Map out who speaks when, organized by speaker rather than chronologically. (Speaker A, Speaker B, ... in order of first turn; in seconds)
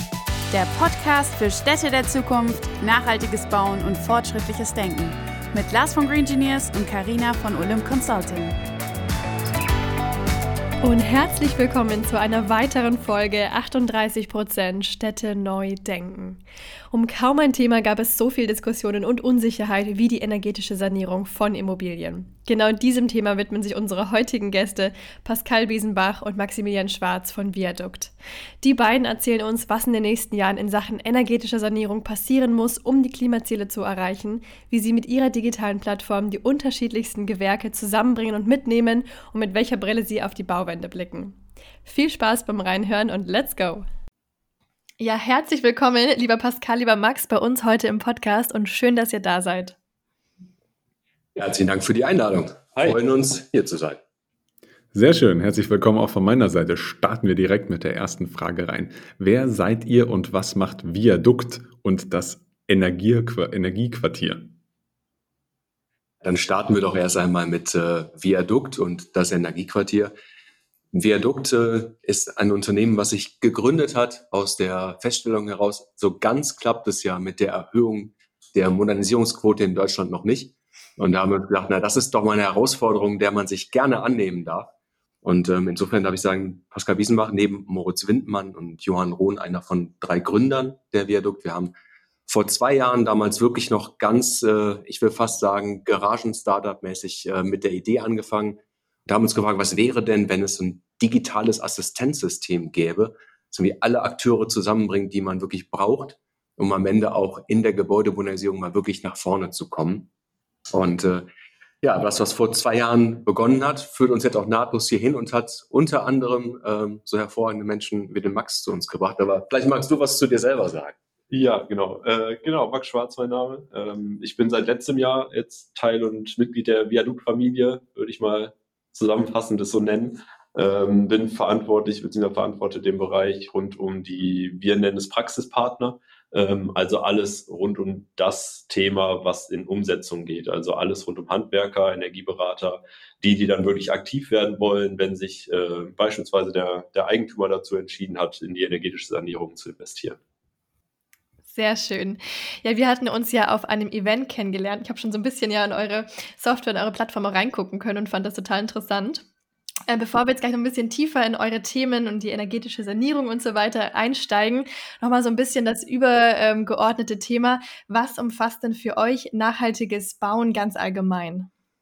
Speaker A: 0.5-8.6
Speaker B: 10.8-16.4, 16.9-43.9, 45.0-49.8, 151.5-159.2, 159.9-171.5
Speaker C: 51.4-54.0, 66.2-70.1, 70.9-84.7, 85.2-91.7, 92.3-110.1, 110.7-111.3, 111.8-121.0
Speaker D: 54.9-64.5
Speaker E: 121.3-150.2